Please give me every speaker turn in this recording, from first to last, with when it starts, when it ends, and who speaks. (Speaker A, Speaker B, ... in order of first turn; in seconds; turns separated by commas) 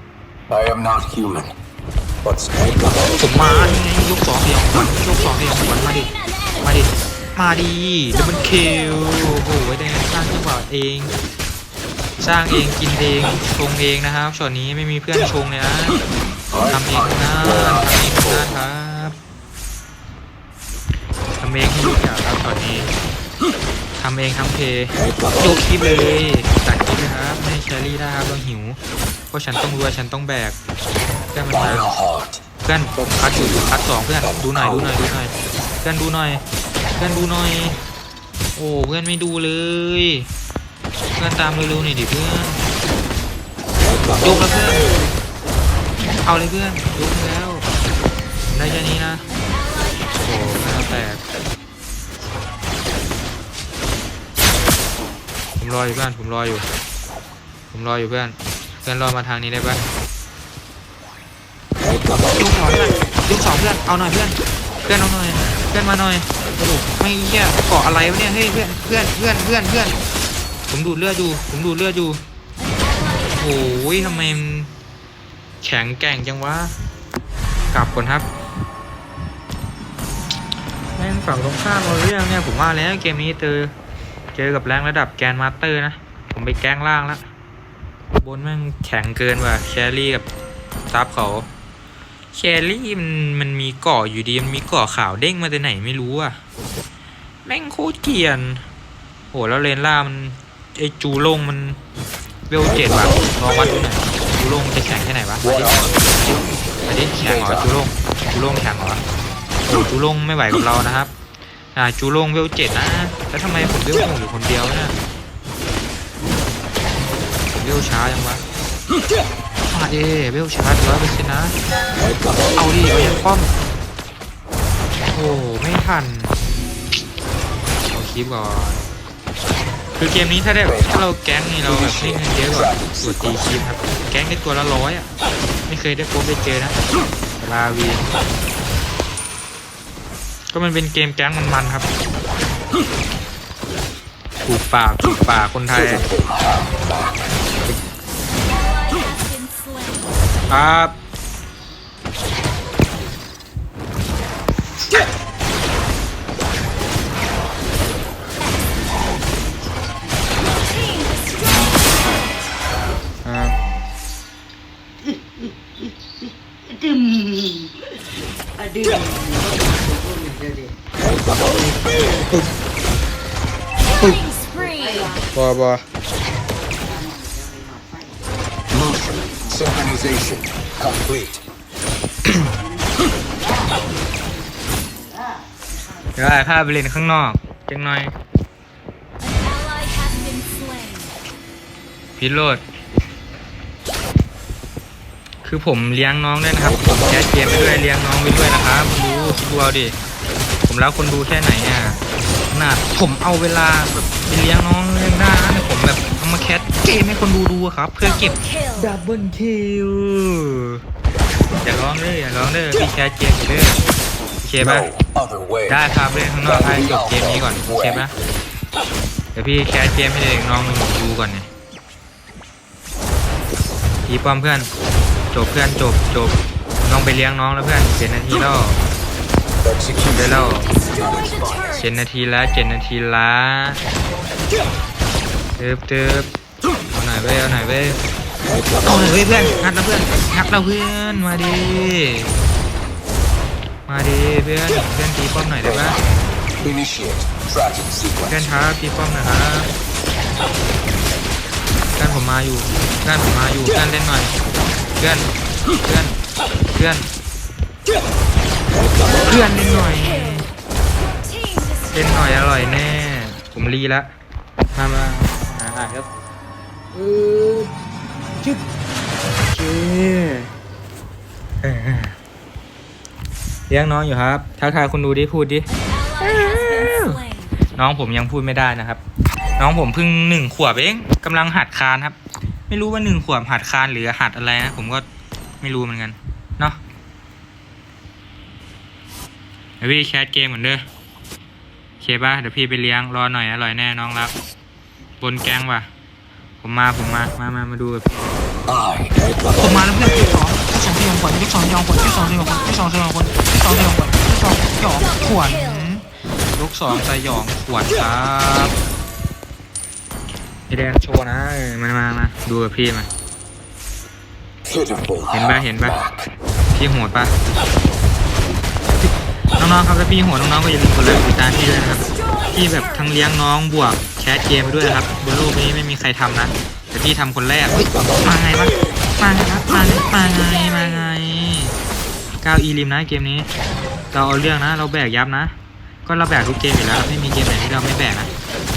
Speaker A: 0.5-1.5, Speaker A: 2.2-3.2, Speaker B: 3.1-11.1, Speaker B: 12.2-16.0, Speaker A: 16.5-18.2, Speaker B: 16.6-19.2, Speaker B: 21.4-22.9, Speaker B: 24.0-28.8, Speaker B: 29.3-30.6, Speaker B: 31.3-31.9, Speaker A: 31.5-32.4, Speaker B: 32.6-36.4, Speaker A: 33.4-33.7, Speaker B: 37.0-37.8, Speaker B: 38.6-40.3, Speaker B: 41.2-42.6, Speaker B: 44.2-44.9, Speaker B: 46.1-47.7, Speaker B: 48.5-49.2, Speaker B: 50.2-51.2, Speaker B: 55.6-56.6, Speaker B: 57.7-59.9, Speaker B: 62.3-70.0, Speaker B: 70.7-72.2, Speaker B: 73.3-74.7, Speaker B: 75.6-76.8, Speaker B: 77.7-78.3, Speaker B: 81.0-83.7, Speaker B: 84.3-87.2, Speaker B: 88.1-90.3, Speaker B: 90.9-91.5, Speaker B: 92.3-96.4, Speaker B: 97.4-98.6, Speaker B: 99.3-101.8, Speaker B: 102.5-105.7, Speaker A: 105.4-106.6, Speaker B: 106.8-109.0, Speaker A: 107.2-107.7, Speaker B: 109.7-111.1, Speaker B: 111.8-115.0, Speaker B: 117.6-118.4, Speaker B: 119.7-121.6, Speaker B: 122.5-123.5, Speaker B: 125.1-126.4, Speaker B: 127.9-128.8, Speaker B: 129.9-135.1, Speaker A: 131.7-133.3, Speaker B: 135.7-136.8, Speaker B: 137.4-138.0, Speaker B: 140.5-141.9, Speaker B: 144.4-146.1, Speaker A: 145.8-147.2, Speaker C: 148.4-150.2, Speaker B: 150.5-150.9, Speaker C: 160.6-162.2, Speaker B: 163.2-163.6, Speaker B: 168.8-170.7, Speaker B: 171.4-172.4, Speaker C: 174.0-175.1, Speaker B: 175.2-175.8, Speaker A: 178.7-181.4, Speaker B: 186.2-188.1, Speaker C: 189.4-191.1, Speaker B: 192.2-192.6, Speaker B: 195.4-199.9, Speaker B: 200.7-210.8, Speaker C: 208.4-208.7, Speaker B: 211.6-213.8, Speaker B: 214.4-214.9, Speaker A: 214.6-215.8, Speaker B: 215.7-218.1, Speaker A: 216.5-218.0, Speaker B: 219.3-221.5, Speaker B: 224.1-224.7, Speaker B: 225.3-228.8, Speaker A: 229.6-231.7, Speaker B: 230.1-230.7, Speaker B: 231.6-233.8, Speaker B: 235.6-236.3, Speaker B: 236.9-238.0, Speaker B: 238.8-242.4, Speaker B: 243.9-246.0, Speaker A: 246.6-248.3, Speaker B: 248.3-249.7, Speaker B: 251.9-254.3, Speaker B: 255.0-255.3, Speaker B: 255.8-256.2, Speaker B: 256.7-257.1, Speaker B: 259.1-260.5, Speaker C: 261.3-261.6, Speaker B: 261.9-264.1, Speaker B: 264.7-266.1, Speaker B: 266.9-267.7, Speaker B: 269.4-270.5, Speaker B: 271.6-272.1, Speaker B: 273.7-275.7, Speaker B: 276.2-279.0, Speaker C: 276.3-277.4, Speaker B: 279.6-282.2, Speaker B: 282.7-285.1, Speaker B: 285.6-286.8, Speaker B: 289.8-290.8, Speaker B: 292.0-294.3, Speaker B: 295.2-295.9, Speaker B: 296.6-298.3, Speaker A: 298.7-299.3, Speaker B: 299.5-308.8, Speaker B: 310.7-313.1, Speaker A: 314.6-316.2, Speaker B: 315.3-316.0, Speaker B: 316.7-317.3, Speaker B: 319.0-331.8, Speaker B: 332.4-333.5, Speaker B: 334.1-338.3